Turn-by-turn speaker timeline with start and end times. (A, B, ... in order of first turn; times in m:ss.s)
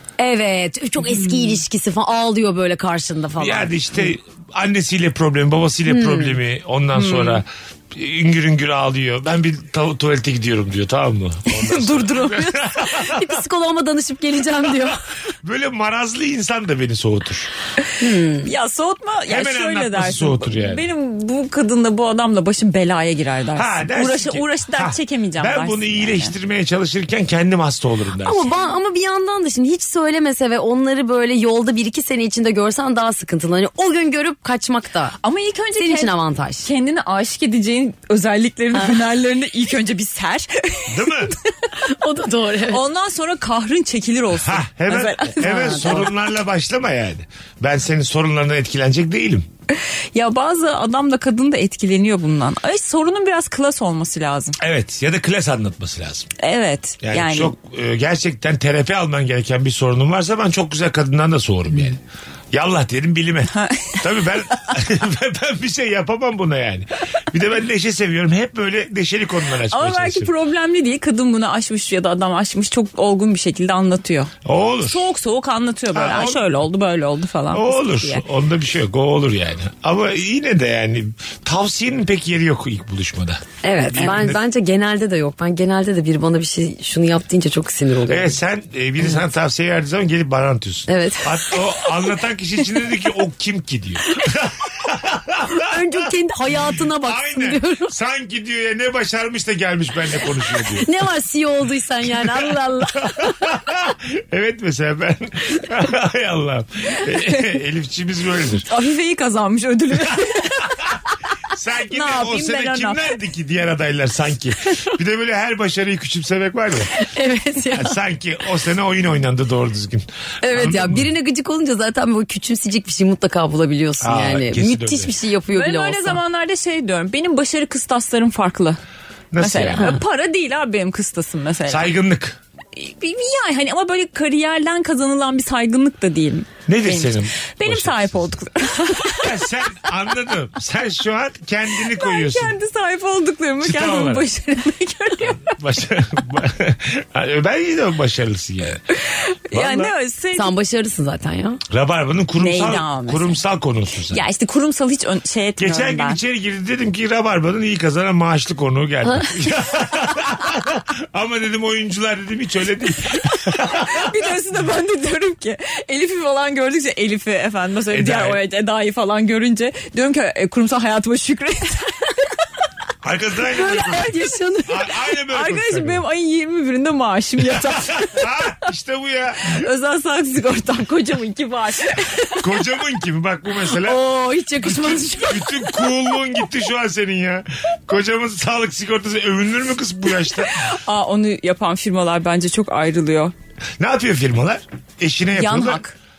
0:00.2-0:03.7 A
0:03.4-0:13.4 B
0:05.9-0:06.3 A
0:06.9-0:07.4 C
0:11.7-0:12.4 C
0:12.7-0:15.0 A
0:14.8-0:17.5 B
0:18.0-0:18.5 A
0:18.4-0:26.3 C
0:19.3-0:20.8 B
0:23.5-0:28.5 B
0:28.2-0:35.1 A
0:35.2-0:41.5 C
0:35.8-0:36.7 A
0:40.9-0:41.3 B
0:41.8-0:42.8 A
0:42.7-0:46.1 C
0:44.4-0:49.5 B
0:45.4-0:46.1 A
0:49.7-0:54.6 C
0:54.6-0:56.3 B
0:56.4-0:57.5 C
0:57.0-1:02.0 B
1:02.5-1:10.3 B
1:03.5-1:04.0 C
1:09.7-1:14.3 C
1:14.4-1:15.0 B
1:14.8-1:18.2 C
1:15.9-1:16.4 B
1:17.5-1:24.4 B
1:23.6-1:28.3 A
1:28.1-1:40.9 B
1:30.9-1:32.0 A
1:35.5-1:37.9 A
1:40.7-1:43.5 A
1:42.0-1:42.5 B
1:43.0-1:48.7 B
1:47.1-1:47.5 C
1:48.6-1:50.8 C
1:51.5-1:56.9 B
1:51.9-1:53.1 C
1:56.9-1:58.0 A
1:57.7-2:01.1 B
2:00.4-2:06.2 A
2:04.0-2:05.1 B
2:05.5-2:08.8 C
2:09.3-2:10.0 B
2:09.4-2:11.9 C
2:11.7-2:12.4 B
2:12.8-2:19.4 C
2:16.7-2:18.2 B
2:19.0-2:22.6 B
2:21.8-2:25.5 C
2:23.6-2:24.3 B
2:25.3-2:28.8 B
2:28.9-2:30.5 C
2:29.5-2:29.9 B
2:30.3-2:31.6 A
2:31.7-2:34.2 B
2:32.4-2:33.4 C
2:34.1-2:36.2 C
2:35.6-2:44.3 B
2:43.5-2:52.0 C
2:47.9-2:48.4 B
2:53.0-2:56.0 B
2:53.5-2:54.8 A
2:55.3-2:58.3 C
2:57.4-2:59.7 B
2:59.5-3:02.4 C
3:02.4-3:04.0 B
3:03.9-3:05.4 A
3:04.6-3:05.6 C
3:04.6-3:10.6 B
3:10.4-3:13.3 C
3:13.8-3:15.8 B
3:15.3-3:15.9 C